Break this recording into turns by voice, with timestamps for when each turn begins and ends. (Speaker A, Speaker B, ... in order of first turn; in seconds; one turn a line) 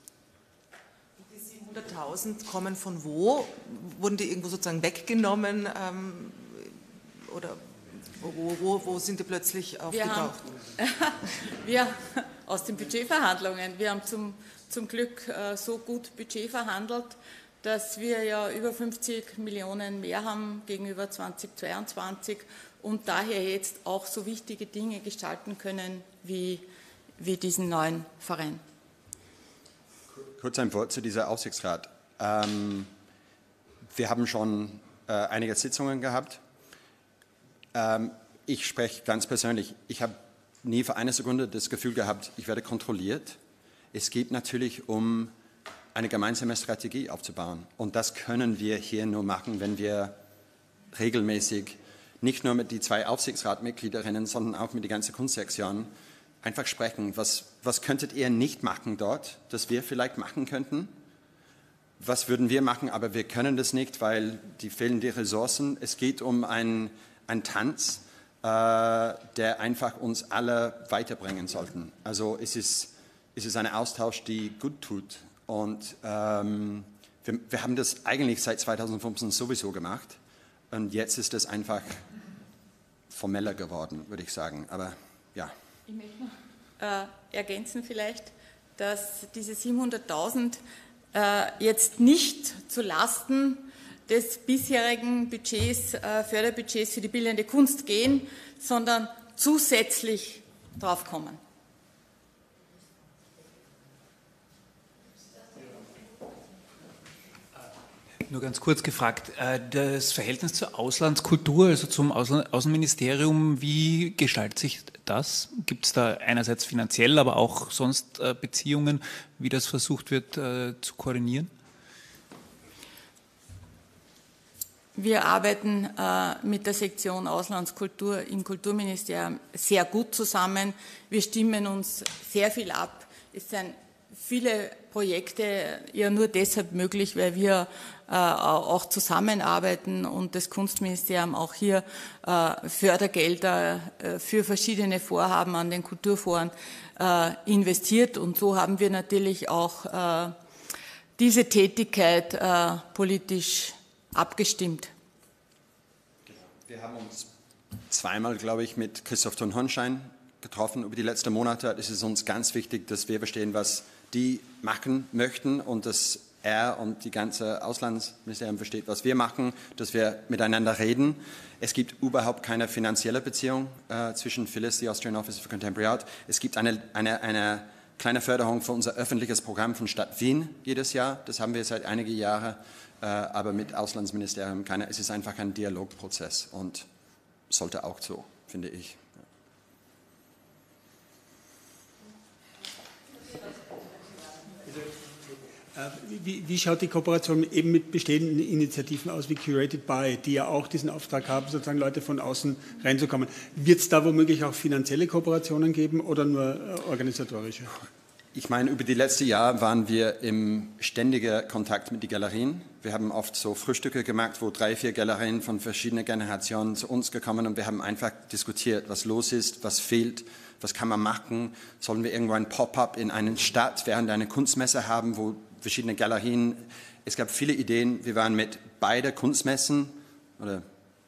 Speaker A: 1.2-10.4
Speaker B: 9.9-26.6
Speaker B: 27.2-28.6
Speaker C: 30.1-32.9
Speaker C: 33.9-36.4
Speaker C: 37.7-43.4
Speaker C: 43.9-45.3
Speaker C: 45.9-50.2
Speaker C: 50.9-60.9
Speaker C: 62.0-80.2
Speaker C: 80.7-82.0
Speaker C: 83.1-85.5
Speaker B: 85.9-90.6
Speaker B: 91.1-101.4
Speaker D: 108.3-121.5
Speaker B: 125.0-150.4
Speaker B: 151.2-154.9
Speaker C: 156.2-157.3
Speaker C: 157.9-186.9
Speaker C: 187.5-189.2
Speaker E: 195.7-207.8
Speaker C: 208.3-230.7